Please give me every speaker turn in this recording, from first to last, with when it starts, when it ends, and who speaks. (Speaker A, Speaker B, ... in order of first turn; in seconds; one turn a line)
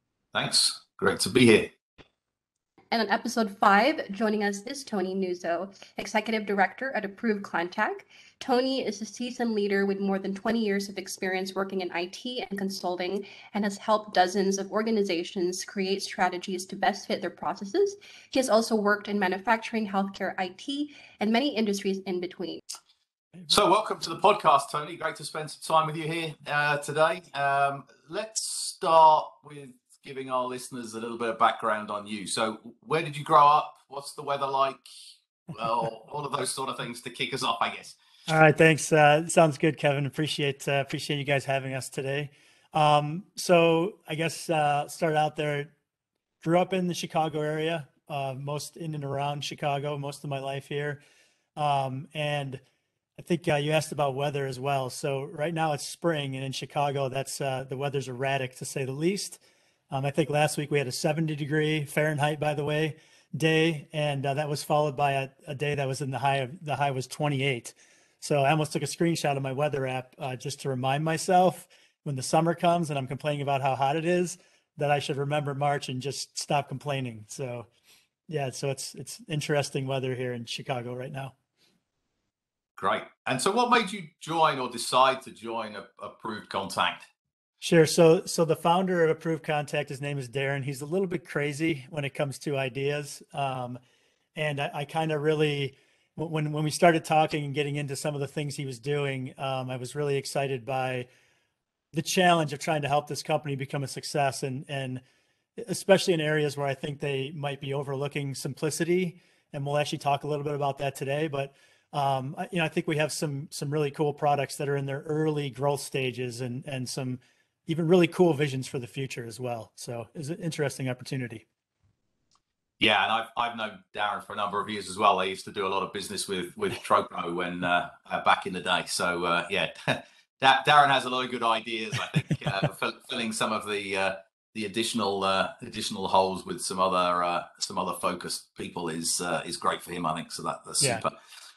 Speaker A: 0.3-1.7
Speaker B: 2.9-22.6
Speaker A: 23.5-34.8
Speaker A: 35.5-38.0
Speaker C: 38.3-45.7
Speaker C: 46.4-51.0
Speaker C: 51.6-52.6
Speaker C: 53.2-77.7
Speaker C: 78.3-81.3
Speaker A: 82.8-87.0
Speaker C: 87.6-93.8
Speaker C: 94.4-101.1
Speaker C: 101.9-105.0
Speaker C: 105.6-121.5
Speaker A: 122.8-141.2